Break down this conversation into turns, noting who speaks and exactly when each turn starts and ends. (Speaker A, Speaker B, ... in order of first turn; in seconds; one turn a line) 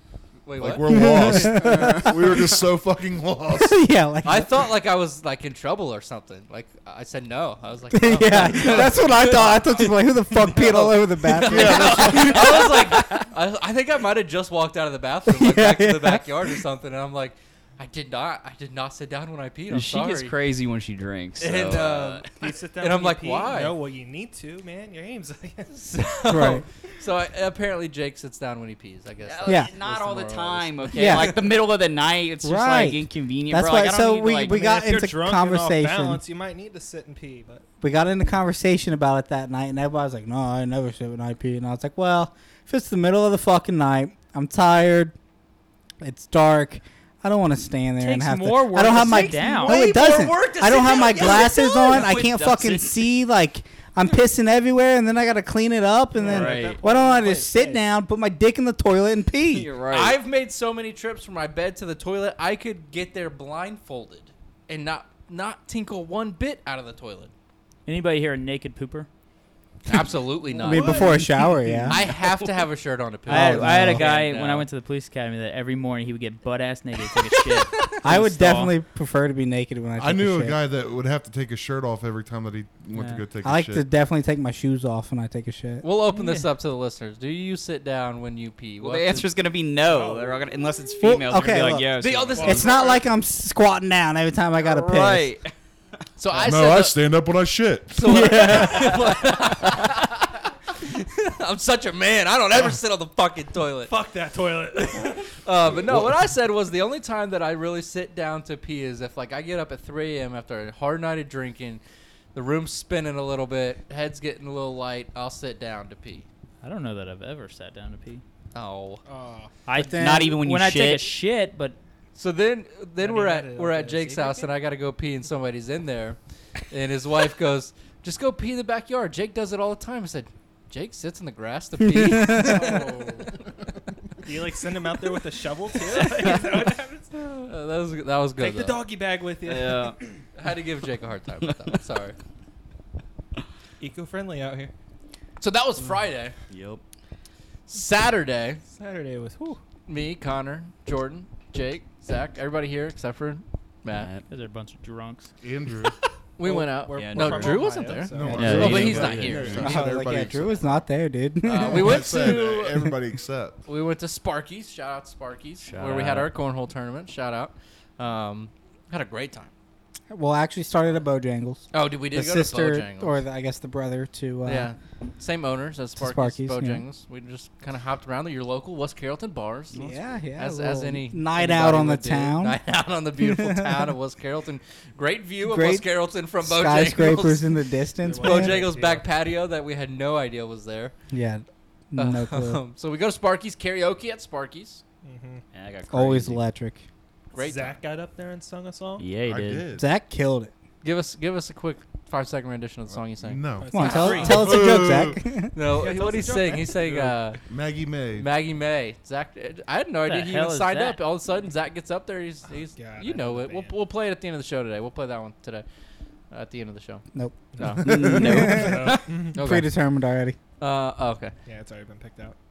Speaker A: 0.5-1.5
Speaker B: 0.6-3.8
Speaker C: 0.9-2.3
Speaker D: 1.5-2.1
Speaker C: 3.5-4.7
Speaker A: 4.2-20.3
Speaker C: 7.9-13.3
Speaker B: 11.5-12.5
Speaker C: 15.3-16.5
Speaker D: 19.7-22.2
Speaker A: 21.4-23.8
Speaker E: 22.3-25.7
Speaker A: 25.7-31.3
Speaker C: 26.3-26.6
Speaker D: 29.2-34.6
Speaker C: 29.4-29.7
Speaker C: 30.9-31.4
Speaker C: 32.4-36.2
Speaker E: 34.5-37.6
Speaker C: 37.8-45.1
Speaker C: 46.0-59.7
Speaker F: 48.0-49.8
Speaker A: 49.0-52.1
Speaker D: 51.2-53.0
Speaker E: 56.1-57.8
Speaker D: 56.3-56.8
Speaker D: 59.5-60.2
Speaker A: 59.9-67.3
Speaker F: 67.9-69.1
Speaker A: 69.9-71.1
Speaker E: 70.4-72.5
Speaker C: 70.7-72.0
Speaker A: 71.9-74.7
Speaker C: 73.3-74.1
Speaker F: 73.3-78.7
Speaker C: 78.0-80.6
Speaker B: 80.0-83.8
Speaker F: 82.9-83.2
Speaker C: 83.4-85.8
Speaker A: 85.8-89.3
Speaker F: 86.1-86.5
Speaker D: 88.8-92.7
Speaker E: 89.8-90.6
Speaker C: 91.0-91.9
Speaker A: 92.0-93.0
Speaker E: 92.3-93.0
Speaker C: 92.4-95.3
Speaker D: 94.6-95.5
Speaker A: 96.2-97.0
Speaker B: 96.3-98.5
Speaker A: 98.0-103.9
Speaker D: 98.2-99.6
Speaker E: 103.9-105.3
Speaker A: 105.4-111.8
Speaker B: 105.7-106.2
Speaker A: 112.3-116.3
Speaker F: 116.6-118.2
Speaker A: 118.5-119.0
Speaker E: 119.1-119.6
Speaker F: 119.7-121.8
Speaker D: 120.0-121.2
Speaker A: 122.2-126.2
Speaker E: 123.0-124.5
Speaker A: 126.7-133.3
Speaker C: 131.8-132.6
Speaker E: 132.2-133.3
Speaker E: 134.2-137.4
Speaker A: 137.1-138.8
Speaker E: 138.4-139.9
Speaker D: 139.4-140.0
Speaker A: 140.3-142.2
Speaker E: 143.8-144.7
Speaker A: 145.4-146.3
Speaker D: 146.5-146.8
Speaker A: 147.7-148.6
Speaker E: 148.7-149.6
Speaker A: 149.9-154.1
Speaker D: 153.9-154.2
Speaker F: 154.3-155.3
Speaker B: 155.4-155.9
Speaker A: 156.4-159.9
Speaker E: 156.4-159.3
Speaker D: 156.9-157.7
Speaker B: 158.1-160.6
Speaker D: 158.4-159.7
Speaker F: 158.4-159.2
Speaker C: 159.6-162.4
Speaker A: 161.4-162.9
Speaker B: 161.5-163.6
Speaker A: 163.7-169.5
Speaker D: 165.6-166.3
Speaker C: 170.1-174.7
Speaker A: 171.7-173.2
Speaker A: 174.5-179.8
Speaker C: 176.0-176.8
Speaker C: 179.7-182.6
Speaker A: 180.4-187.5
Speaker C: 183.2-183.9
Speaker C: 185.4-188.6
Speaker E: 188.0-189.1
Speaker A: 188.2-190.9
Speaker C: 191.1-192.6
Speaker A: 192.0-194.8
Speaker E: 195.0-195.4
Speaker D: 195.5-196.4
Speaker C: 195.9-196.8
Speaker A: 197.3-197.8
Speaker E: 197.4-199.1
Speaker D: 199.0-199.7
Speaker B: 199.2-199.9
Speaker C: 199.8-200.5
Speaker A: 200.8-204.6
Speaker B: 202.9-205.2
Speaker E: 203.6-204.6
Speaker C: 203.7-205.5
Speaker A: 205.5-207.4
Speaker E: 205.8-207.2
Speaker B: 207.5-208.3
Speaker A: 208.2-215.7
Speaker F: 210.1-211.0
Speaker E: 212.5-213.7
Speaker A: 216.3-217.1
Speaker C: 217.1-220.4
Speaker A: 217.6-219.7
Speaker D: 217.8-219.0
Speaker E: 218.4-219.4
Speaker A: 220.6-221.3
Speaker E: 221.5-222.4